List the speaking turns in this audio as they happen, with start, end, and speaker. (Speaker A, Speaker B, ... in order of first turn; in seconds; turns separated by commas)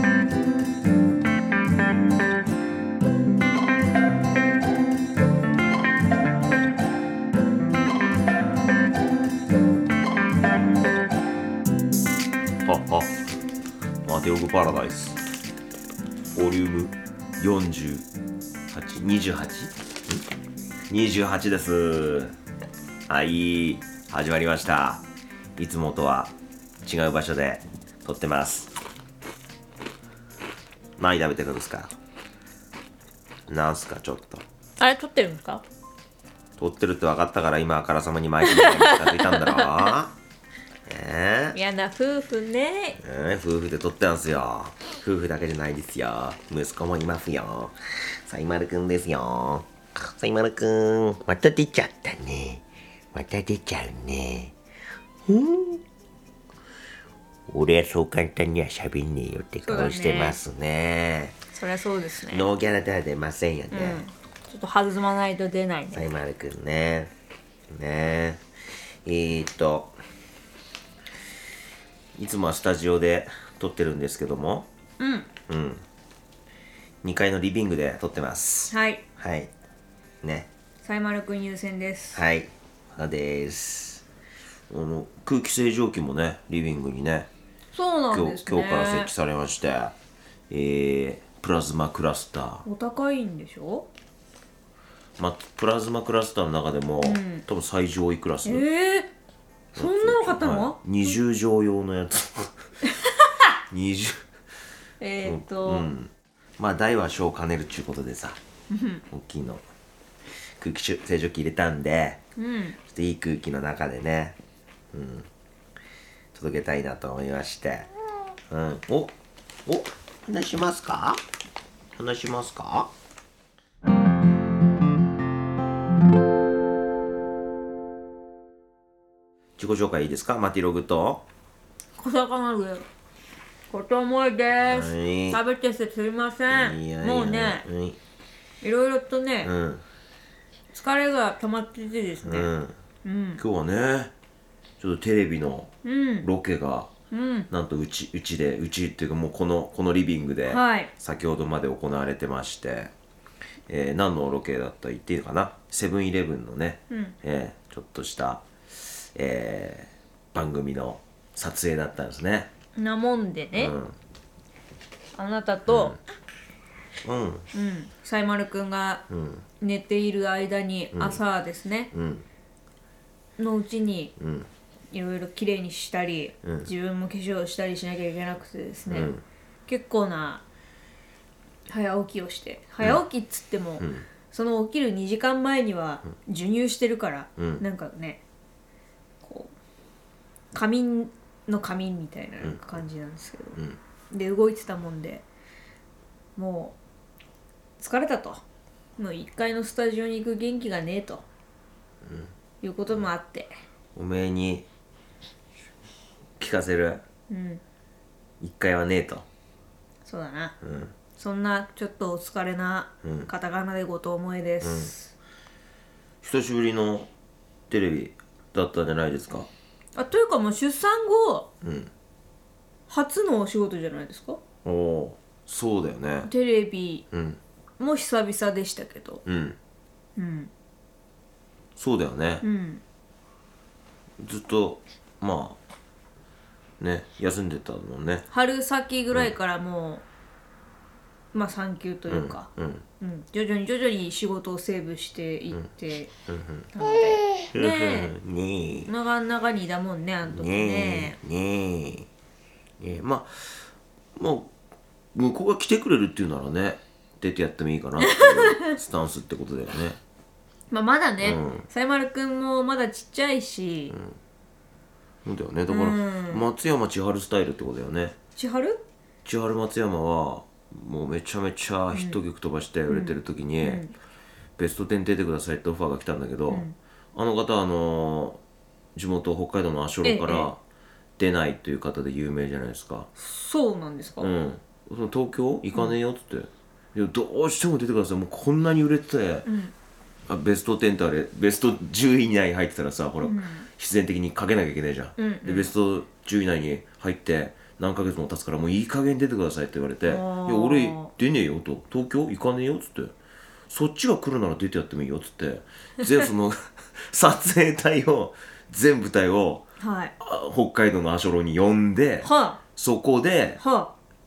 Speaker A: 12.6-13.2, Speaker A: 14.0-15.2, Speaker A: 16.3-18.1, Speaker A: 18.7-20.2, Speaker A: 20.9-22.3, Speaker A: 23.1-25.0, Speaker A: 25.6-28.7, Speaker A: 31.0-31.9, Speaker A: 33.5-34.4, Speaker B: 34.8-35.6, Speaker A: 36.6-40.1, Speaker B: 38.4-40.0, Speaker A: 40.9-41.6, Speaker B: 41.5-43.0, Speaker A: 43.0-54.5, Speaker A: 55.2-55.8, Speaker A: 57.5-61.4, Speaker B: 59.6-60.4, Speaker B: 61.5-62.5, Speaker A: 62.3-64.0, Speaker B: 63.7-66.1, Speaker A: 65.9-67.1, Speaker A: 67.7-68.4, Speaker A: 69.0-70.0, Speaker A: 72.2-74.7, Speaker B: 75.0-75.3, Speaker A: 75.5-75.8, Speaker A: 77.0-79.5, Speaker B: 78.7-79.0, Speaker A: 80.2-80.5, Speaker B: 80.8-82.2, Speaker A: 82.1-84.0, Speaker A: 84.7-87.3, Speaker B: 87.7-89.1, Speaker A: 88.1-89.9, Speaker A: 90.5-92.6, Speaker B: 92.6-93.9, Speaker A: 95.2-98.7, Speaker B: 97.0-97.4, Speaker B: 98.4-99.1, Speaker B: 99.7-101.2, Speaker A: 99.7-102.5, Speaker B: 102.9-103.4, Speaker A: 103.7-104.2, Speaker B: 105.0-105.9, Speaker A: 105.2-108.4, Speaker B: 108.7-109.0, Speaker A: 109.1-109.6, Speaker A: 110.6-112.2, Speaker B: 112.4-112.8, Speaker A: 112.8-114.4, Speaker A: 114.9-115.3, Speaker A: 116.3-117.9, Speaker A: 118.5-119.1, Speaker A: 119.7-121.2, Speaker A: 121.9-122.9, Speaker A: 129.6-131.2, Speaker B: 132.0-132.8, Speaker B: 133.7-137.7, Speaker A: 134.6-135.4, Speaker A: 136.5-138.0, Speaker B: 138.6-139.5, Speaker A: 139.4-139.8, Speaker B: 140.7-142.5, Speaker A: 142.2-142.8, Speaker B: 143.0-143.4, Speaker A: 143.4-144.1, Speaker A: 144.8-146.9, Speaker B: 145.8-146.3, Speaker B: 147.1-147.5, Speaker A: 147.5-152.9, Speaker B: 150.5-150.9, Speaker A: 153.7-162.5, Speaker B: 156.9-157.2, Speaker B: 162.8-163.7, Speaker A: 163.5-163.9, Speaker B: 165.2-165.9, Speaker A: 165.7-166.0, Speaker A: 167.0-167.4, Speaker B: 167.5-169.1, Speaker A: 169.1-169.4, Speaker B: 169.6-171.9, Speaker A: 170.9-171.2, Speaker A: 171.9-172.2, Speaker B: 173.4-174.1, Speaker A: 174.2-174.5, Speaker B: 174.9-179.1, Speaker A: 176.4-176.7, Speaker A: 178.9-179.2, Speaker B: 179.7-180.4, Speaker B: 181.7-188.2, Speaker A: 183.8-184.1, Speaker A: 187.4-187.6, Speaker B: 189.2-189.5, Speaker B: 190.5-193.6, Speaker A: 192.4-192.8, Speaker B: 194.1-195.2, Speaker B: 196.3-196.8, Speaker B: 197.8-198.4, Speaker B: 199.0-201.2, Speaker A: 202.0-202.3, Speaker B: 202.6-203.5, Speaker A: 203.9-204.7, Speaker A: 206.4-207.0, Speaker B: 207.3-207.6, Speaker A: 208.4-209.2, Speaker B: 210.1-210.5, Speaker A: 210.6-210.9, Speaker B: 211.2-215.1, Speaker A: 213.0-213.3, Speaker A: 214.6-214.9, Speaker A: 216.2-217.1, Speaker A: 217.7-219.5, Speaker B: 219.9-221.5, Speaker A: 221.6-221.9, Speaker B: 222.9-224.4, Speaker A: 224.6-226.3, Speaker B: 226.2-227.0, Speaker A: 227.1-227.4, Speaker B: 227.8-229.2, Speaker A: 229.2-229.6, Speaker B: 230.2-230.5, Speaker A: 231.8-232.4, Speaker B: 232.4-232.8, Speaker A: 234.2-235.6, Speaker A: 236.8-238.3, Speaker B: 238.3-240.0, Speaker B: 241.3-242.5, Speaker A: 242.1-242.8, Speaker B: 243.0-246.1, Speaker A: 246.3-246.7, Speaker B: 246.7-248.1, Speaker A: 247.5-248.9, Speaker B: 248.8-251.2, Speaker A: 250.2-252.1, Speaker A: 252.8-253.6, Speaker A: 254.2-254.5, Speaker A: 255.1-260.0, Speaker B: 258.0-258.8, Speaker B: 260.7-264.0, Speaker A: 261.2-261.7, Speaker A: 263.9-264.2, Speaker A: 265.2-268.1, Speaker B: 265.7-266.4, Speaker B: 268.4-268.8, Speaker A: 269.2-273.9, Speaker B: 271.9-272.2, Speaker B: 272.9-273.9, Speaker A: 274.6-278.4, Speaker B: 276.5-276.8, Speaker A: 278.9-280.6, Speaker B: 280.0-280.5, Speaker A: 281.2-283.1, Speaker B: 283.1-284.3, Speaker A: 284.2-289.5, Speaker B: 289.4-289.7, Speaker A: 290.3-303.1, Speaker B: 293.2-293.7, Speaker B: 295.2-295.7, Speaker B: 300.1-301.1, Speaker A: 303.7-309.6, Speaker B: 309.8-310.1, Speaker A: 310.2-313.6, Speaker B: 312.2-312.6, Speaker B: 313.6-313.9